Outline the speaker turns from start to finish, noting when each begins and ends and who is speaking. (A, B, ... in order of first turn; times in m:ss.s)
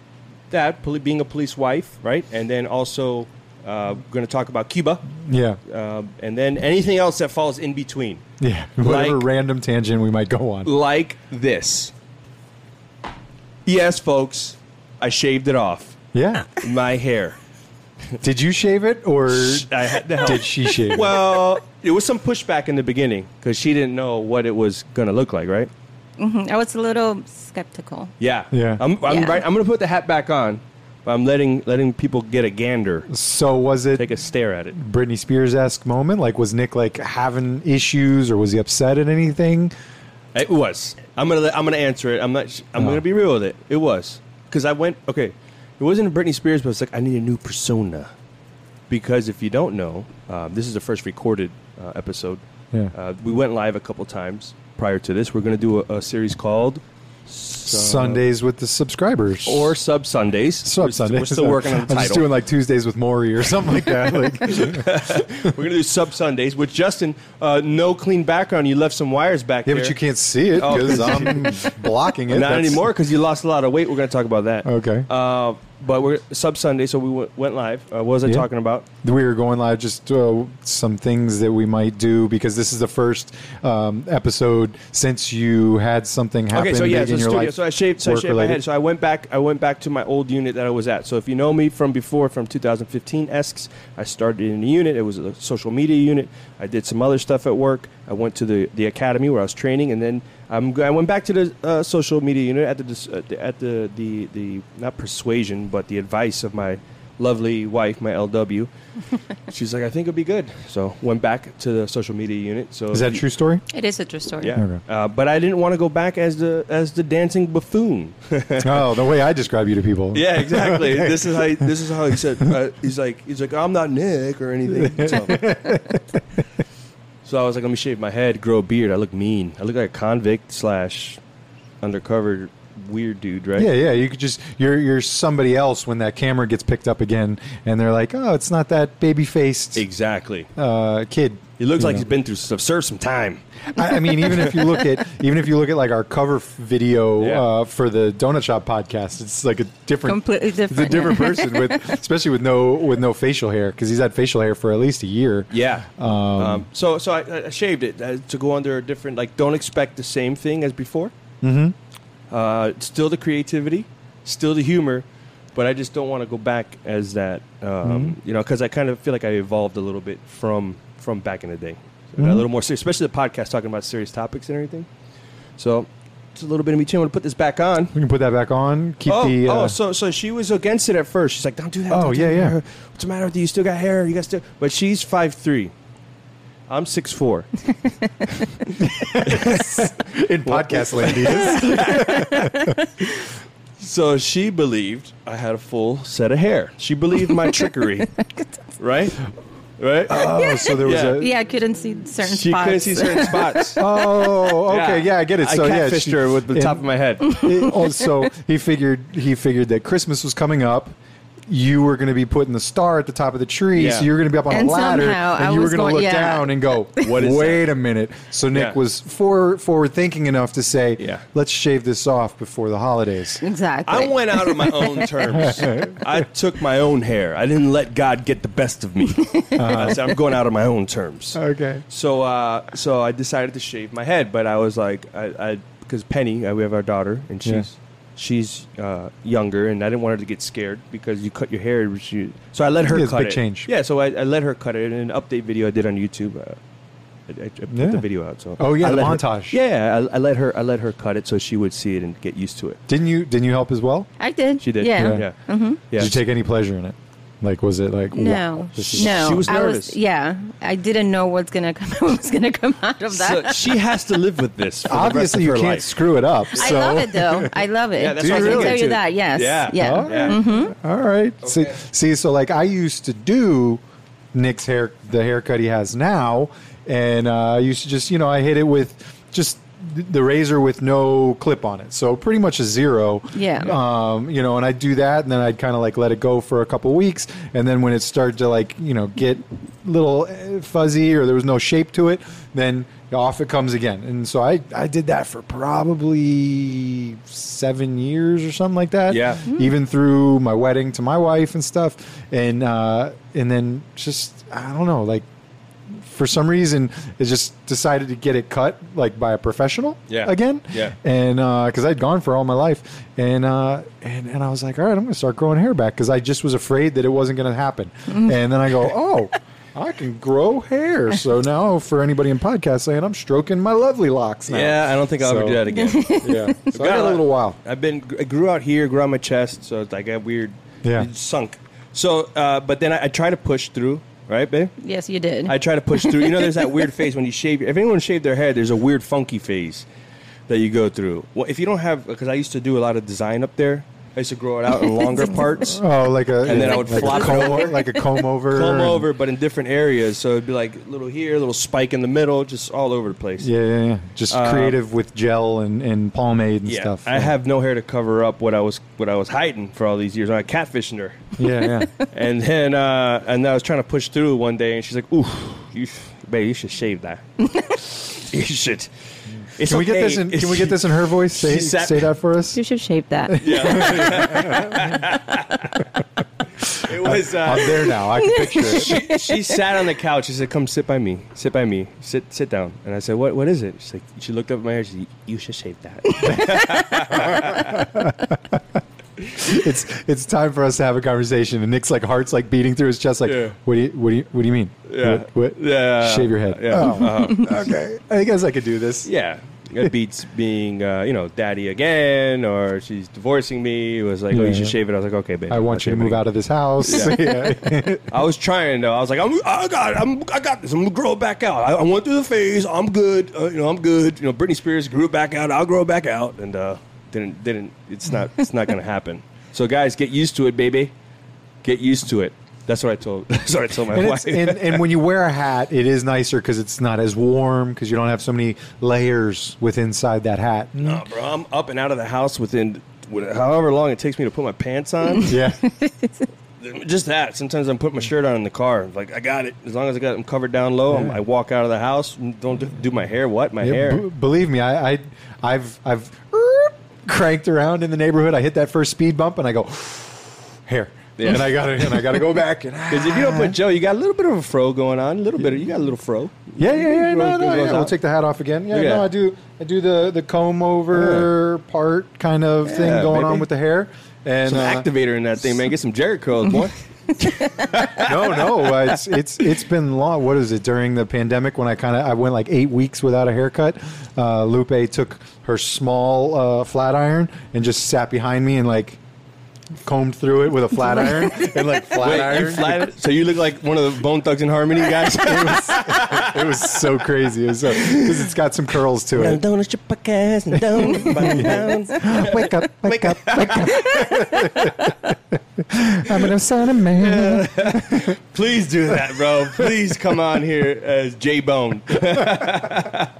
0:00.5-0:08.2 A
0:05.2-0:05.6 B
0:08.4-0:10.7 B
0:08.8-0:09.2 A
0:10.6-0:11.9 A
0:13.7-0:16.0 A
0:16.1-0:16.5 B
0:16.6-0:17.4 A
0:18.2-0:21.2 B
0:19.3-0:25.7 A
0:26.2-0:28.1 C
0:28.2-0:33.1 A
0:28.5-0:28.8 B
0:29.1-0:29.4 C
0:33.1-0:34.2 B
0:34.0-0:34.8 A
0:34.8-0:39.7 B
0:40.4-0:48.1 A
0:48.9-0:52.4 A
0:52.9-0:58.2 A
0:57.6-0:59.8 B
0:59.5-1:02.3 A
1:00.6-1:04.9 B
1:04.1-1:10.0 A
1:09.7-1:12.9 B
1:10.6-1:11.7 A
1:12.3-1:18.9 A
1:14.6-1:15.1 B
1:19.0-1:28.6 B
1:26.5-1:48.7 A
1:49.5-1:53.2 A
1:52.9-1:53.6 B
1:53.7-1:54.6 C
1:54.4-1:58.8 A
1:54.6-1:54.8 B
1:58.6-2:01.7 B
2:00.1-2:05.8 A
2:04.7-2:06.0 B
2:07.2-2:11.2 A
2:11.8-2:13.7 A
2:13.6-2:19.8 B
2:19.8-2:20.5 A
2:20.6-2:22.1 B
2:21.6-2:23.4 A
2:23.7-2:36.7 B
2:27.2-2:27.4 A
2:30.0-2:31.9 C
2:35.5-2:41.1 A
2:41.4-2:41.8 B
2:42.3-2:54.9 A
2:47.8-2:48.2 B
2:52.2-2:52.5 B
2:55.6-2:58.0 A
2:58.0-2:59.8 B
2:59.1-3:05.7 A
3:01.9-3:02.6 B
3:06.7-3:07.5 A
3:08.7-3:09.9 A
3:08.8-3:12.8 B
3:10.5-3:12.3 A
3:11.3-3:12.9 C
3:13.8-3:18.1 A
3:18.1-3:18.4 C
3:18.8-3:19.3 A
3:19.8-3:21.3 A
3:20.1-3:21.3 B
3:20.3-3:23.8 C
3:22.2-3:23.8 A
3:23.8-3:31.0 B
3:24.5-3:27.4 A
3:27.3-3:27.8 C
3:31.5-3:43.4 B
3:33.8-3:34.1 A
3:34.5-3:37.2 C
3:37.0-3:37.7 A
3:41.0-3:41.2 A
3:43.4-3:45.2 C
3:43.9-4:06.6 A
3:45.3-3:46.2 B
3:49.3-3:49.8 C
3:49.6-3:50.0 B
3:51.4-3:51.8 B
4:02.8-4:03.7 B
4:07.3-4:12.8 A
4:07.7-4:08.0 B
4:08.6-4:09.6 B
4:12.9-4:14.1 B
4:14.2-4:15.8 C
4:14.6-4:15.4 A
4:14.9-4:15.2 B
4:15.9-4:16.2 A
4:16.0-4:19.6 B
4:18.1-4:23.8 C
4:18.8-4:20.0 A
4:23.1-4:26.0 A
4:24.9-4:27.6 B
4:26.5-4:27.0 A
4:26.6-4:30.7 C
4:28.0-4:30.4 A
4:28.2-4:28.9 B
4:29.8-4:33.8 B
4:31.4-4:31.7 A
4:34.3-5:05.2 B
4:43.3-4:43.8 C
4:59.1-4:59.5 A
5:05.9-5:27.6 B
5:10.1-5:11.0 A
5:24.5-5:34.7 A
5:25.7-5:26.6 C
5:30.8-5:31.1 B
5:34.8-5:36.5 C
5:35.5-5:39.8 A
5:40.5-5:45.8 A
5:45.0-5:45.8 C
5:45.6-5:49.1 B
5:46.4-5:53.5 A
5:46.4-5:48.2 C
5:53.4-5:57.3 B
5:54.3-5:54.8 A
5:56.7-6:01.3 A
6:01.4-6:01.9 B
6:02.1-6:08.9 A
6:09.6-6:12.1 A
6:09.6-6:12.6 B
6:12.5-6:14.1 C
6:13.3-6:14.9 B
6:13.4-6:15.8 A
6:16.6-6:19.0 B
6:16.8-6:18.0 A
6:17.9-6:19.5 C
6:18.6-6:27.8 A
6:26.2-6:27.1 C
6:27.3-6:28.6 B
6:29.2-6:39.1 B
6:33.2-6:33.6 A
6:34.9-6:37.7 A
6:39.0-6:46.2 A
6:44.3-6:44.8 B
6:45.5-6:48.1 B
6:46.8-6:47.4 A
6:48.1-7:00.9 A
7:01.6-7:04.8 A
7:03.9-7:11.0 B
7:10.8-7:15.4 A
7:15.1-7:16.3 C
7:15.3-7:15.6 B
7:16.6-7:24.0 A
7:20.9-7:21.2 B
7:23.6-7:33.6 B
7:31.2-7:32.2 A
7:32.9-7:37.9 A
7:36.6-7:44.9 B
7:38.7-7:39.1 A
7:40.9-7:41.3 A
7:42.6-7:43.5 A
7:44.4-7:49.0 A
7:48.0-7:59.0 B
7:59.8-8:02.9 B
8:01.2-8:06.9 A
8:05.1-8:09.4 B
8:07.6-8:08.3 A
8:09.2-8:14.1 A
8:10.6-8:18.2 B
8:17.0-8:23.1 A